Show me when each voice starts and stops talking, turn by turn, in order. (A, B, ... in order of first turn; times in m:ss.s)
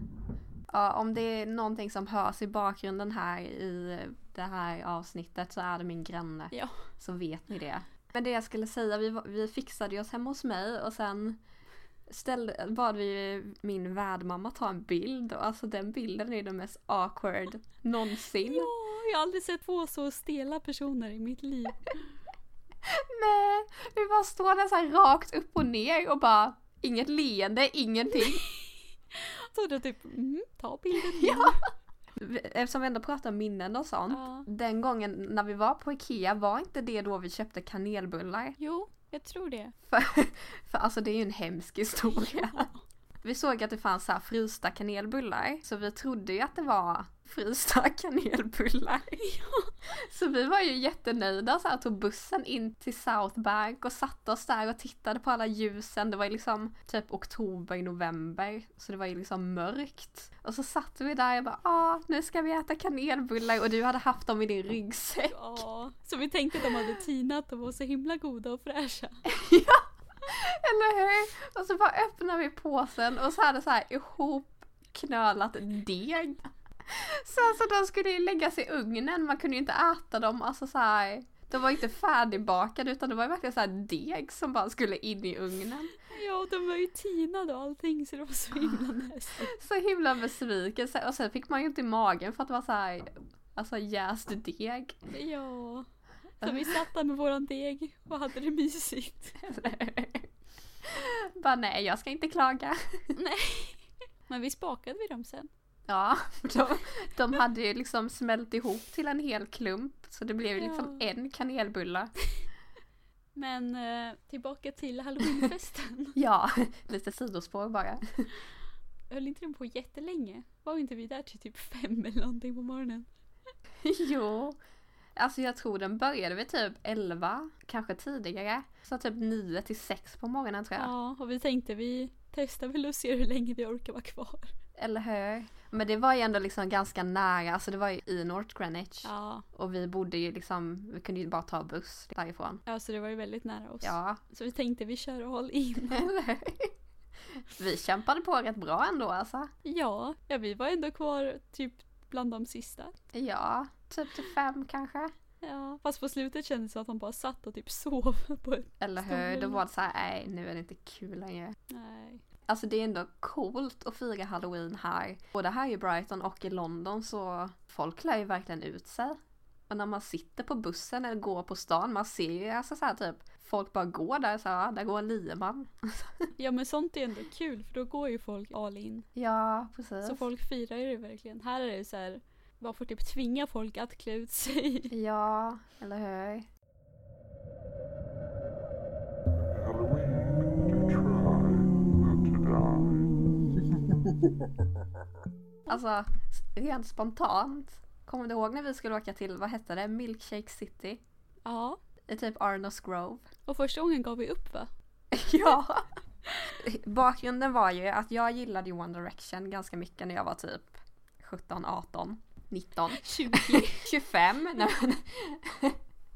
0:00.7-0:11.4 A
0:06.5-0:06.8 B
0:12.1-0:18.7 A
0:18.4-0:22.0 B
0:22.8-0:28.4 A
0:28.2-0:31.7 B
0:31.0-0:31.5 A
0:32.2-0:38.6 A
0:34.1-0:34.5 B
0:38.6-0:39.7 B
0:39.9-0:42.7 A
0:42.1-0:42.8 B
0:43.2-0:49.2 A
0:49.2-0:49.8 B
0:49.9-1:05.6 A
1:05.3-1:09.2 B
1:09.2-1:25.9 A
1:26.0-1:29.5 B
1:29.4-1:35.0 A
1:35.1-1:35.9 B
1:36.4-1:39.4 B
1:36.4-1:36.8 A
1:39.4-1:40.3 A
1:40.8-1:43.1 A
1:43.1-1:45.5 B
1:45.9-1:52.1 A
1:50.6-1:51.0 B
1:53.3-1:56.2 B
1:56.2-1:58.3 A
1:59.1-2:03.1 B
2:03.8-2:04.6 A
2:05.2-2:10.9 A
2:10.8-2:14.5 B
2:14.8-2:22.6 A
2:19.0-2:19.4 B
2:22.6-2:26.1 B
2:23.8-2:24.2 A
2:25.9-2:26.7 A
2:27.4-2:29.5 A
2:29.6-2:32.9 B
2:33.1-2:35.1 A
2:35.4-2:39.6 B
2:38.8-2:41.5 A
2:41.7-2:42.2 B
2:42.5-2:56.3 A
2:56.4-2:59.1 B
2:59.1-3:00.2 A
3:00.0-3:04.9 B
3:04.9-3:06.5 A
3:09.5-3:13.3 C
3:15.7-3:21.0 A
3:21.4-3:21.8 B
3:22.1-3:23.2 A
3:23.5-3:24.7 B
3:25.1-3:25.9 A
3:26.5-3:35.8 A
3:32.9-3:33.9 B